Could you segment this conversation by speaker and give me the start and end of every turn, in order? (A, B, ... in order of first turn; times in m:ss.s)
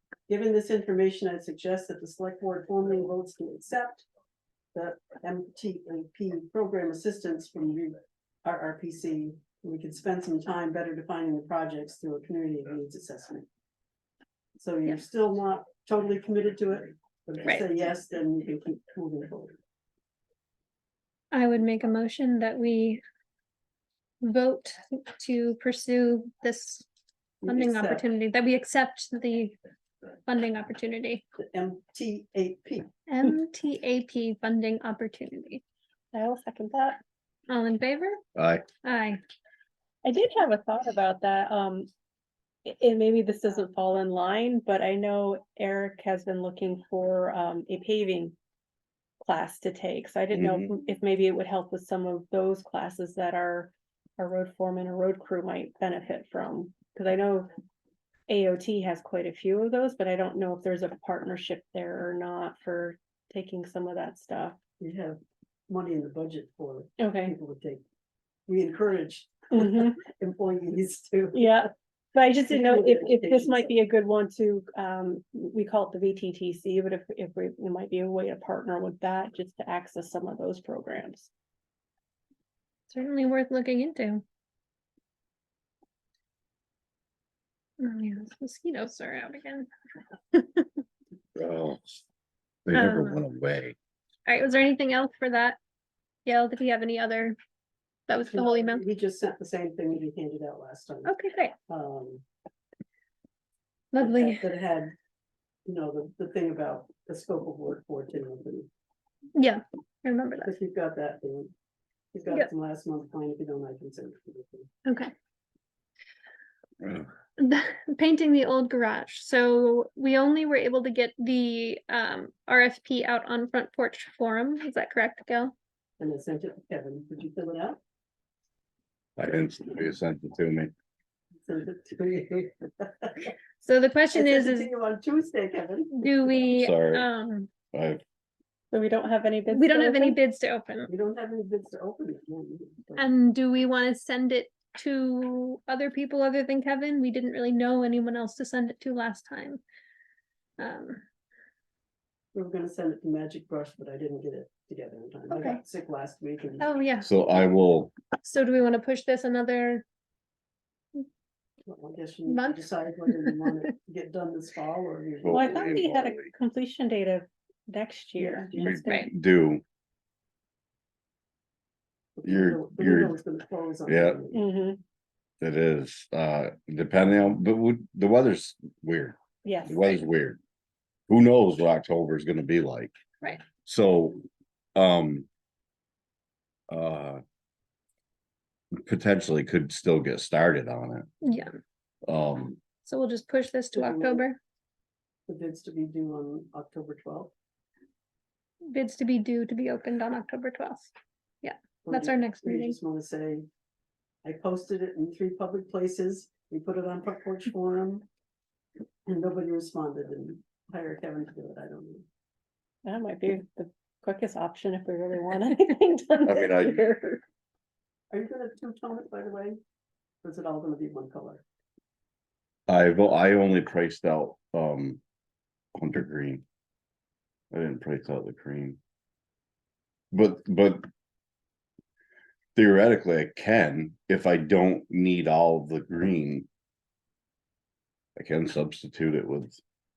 0:00.3-0:04.0 A
0:04.7-0:13.5 A
0:14.6-0:19.6 A
0:21.3-0:23.0 B
0:24.2-0:26.8 B
0:27.4-0:28.0 A
0:27.4-0:29.6 B
0:30.2-0:31.2 B
0:31.4-0:32.9 A
0:33.1-0:35.6 B
0:36.1-0:37.0 C
0:37.5-0:38.2 B
0:38.4-0:38.6 D
0:38.8-0:39.2 B
0:40.0-0:41.9 C
0:42.6-0:48.4 C
0:49.2-0:57.5 C
0:50.3-0:50.7 D
0:58.3-1:04.6 C
1:04.8-1:07.8 A
1:07.0-1:07.3 C
1:08.5-1:11.7 A
1:09.6-1:09.9 C
1:11.3-1:21.3 C
1:12.5-1:13.7 A
1:22.9-1:24.2 B
1:27.8-1:29.7 B
1:30.3-1:30.7 B
1:31.3-1:32.0 D
1:32.7-1:33.8 D
1:32.7-1:33.2 B
1:34.3-1:35.6 B
1:36.3-1:37.4 B
1:38.1-1:38.8 B
1:38.3-1:41.2 A
1:41.0-1:41.6 B
1:41.7-1:42.2 A
1:43.9-1:44.5 B
1:44.0-1:44.9 A
1:45.7-1:48.7 A
1:49.3-1:50.6 B
1:50.4-1:51.5 A
1:52.1-1:54.7 A
1:54.9-1:55.1 B
1:56.8-1:57.1 D
1:57.4-2:05.5 B
2:06.0-2:07.8 A
2:09.2-2:10.7 D
2:11.4-2:13.3 A
2:13.6-2:14.7 B
2:14.1-2:16.1 A
2:15.9-2:17.5 B
2:16.5-2:17.1 D
2:17.7-2:18.0 D
2:18.7-2:20.2 C
2:19.5-2:20.9 B
2:20.9-2:23.1 A
2:23.0-2:29.6 B
2:30.6-2:31.0 B
2:32.3-2:37.3 A
2:35.3-2:35.6 B
2:36.6-2:37.1 B
2:37.0-2:37.9 D
2:38.2-2:39.8 B
2:41.7-2:45.8 A
2:42.3-2:43.6 B
2:45.2-2:46.3 D
2:45.3-2:49.0 C
2:48.2-2:48.8 A
2:48.6-2:49.6 D
2:48.9-2:49.1 B
2:52.2-2:54.4 A
2:52.2-2:53.2 D
2:53.9-2:54.2 D
2:54.3-2:54.8 C
2:55.4-3:00.4 D
2:59.4-2:59.9 C
3:01.1-3:02.9 D
3:03.6-3:04.2 D
3:04.8-3:05.3 D
3:06.7-3:07.2 D
3:08.9-3:11.1 D
3:11.2-3:11.5 B
3:12.1-3:12.6 D
3:12.8-3:14.4 B
3:13.8-3:14.2 A
3:15.3-3:17.3 A
3:18.7-3:22.8 B
3:21.8-3:23.5 A
3:24.2-3:28.0 A
3:29.1-3:32.1 A
3:32.8-3:37.2 C
3:36.2-3:36.9 D
3:38.1-3:39.6 A
3:40.2-3:41.4 A
3:42.7-3:45.0 D
3:45.8-3:46.4 D
3:47.5-3:48.8 D
3:50.1-3:50.9 D
3:52.6-3:56.5 D
3:58.2-3:59.6 D